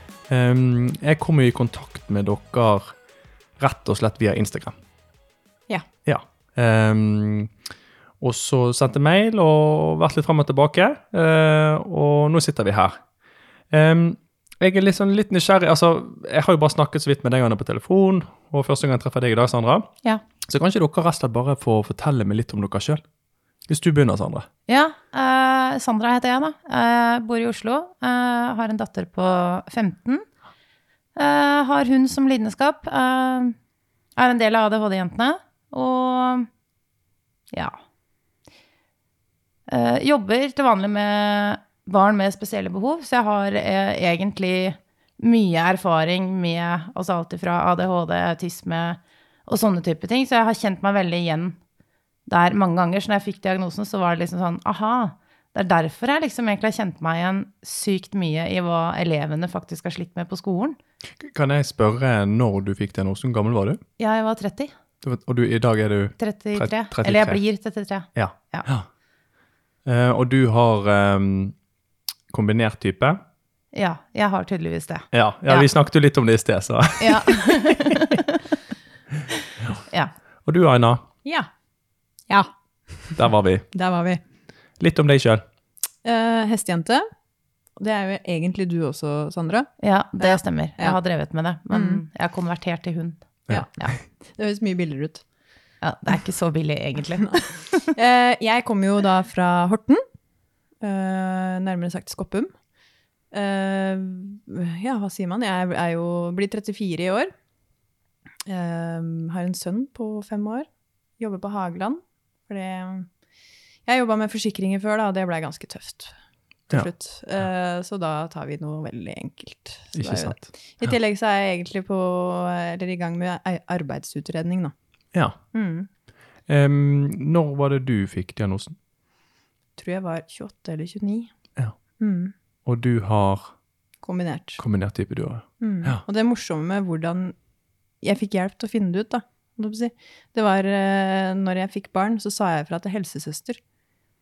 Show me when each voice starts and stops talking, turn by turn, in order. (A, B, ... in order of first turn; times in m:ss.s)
0:00.3-0:03.0 A
0:03.6-0:04.8 A
0:06.0-0:07.5 A
0:08.2-0:13.0 A
0:13.7-0:19.9 A
0:20.4-0:23.0 A
0:23.7-0:24.5 A
0:24.7-0:30.2 B
0:31.2-0:33.6 B
0:34.2-0:36.5 B
0:37.5-0:37.8 B
0:39.7-0:51.6 B
0:52.3-1:00.8 B
1:01.2-1:03.8 A
1:04.0-1:04.7 B
1:05.0-1:07.4 A
1:06.2-1:08.7 B
1:08.1-1:08.9 A
1:09.8-1:11.6 A
1:12.3-1:13.2 A
1:13.7-1:15.7 B
1:15.1-1:17.9 A
1:17.0-1:18.4 B
1:20.4-1:21.0 A
1:22.3-1:23.1 C
1:23.1-1:23.7 A
1:23.7-1:24.2 C
1:24.8-1:25.4 A
1:26.0-1:27.0 C
1:27.8-1:31.0 C
1:29.8-1:33.9 B
1:31.7-1:32.0 C
1:33.5-1:35.2 C
1:35.8-1:37.9 B
1:37.9-1:40.0 C
1:40.8-1:42.5 C
1:43.3-1:47.3 C
1:48.4-1:53.1 C
1:53.8-1:56.1 C
1:56.7-2:04.7 C
1:59.9-2:00.9 A
2:05.5-2:05.9 C
2:06.5-2:08.8 A
2:09.8-2:11.3 C
2:12.0-2:12.3 C
2:12.6-2:13.5 A
2:14.0-2:14.6 C
2:14.6-2:16.0 A
2:15.6-2:17.4 C
2:18.0-2:23.6 C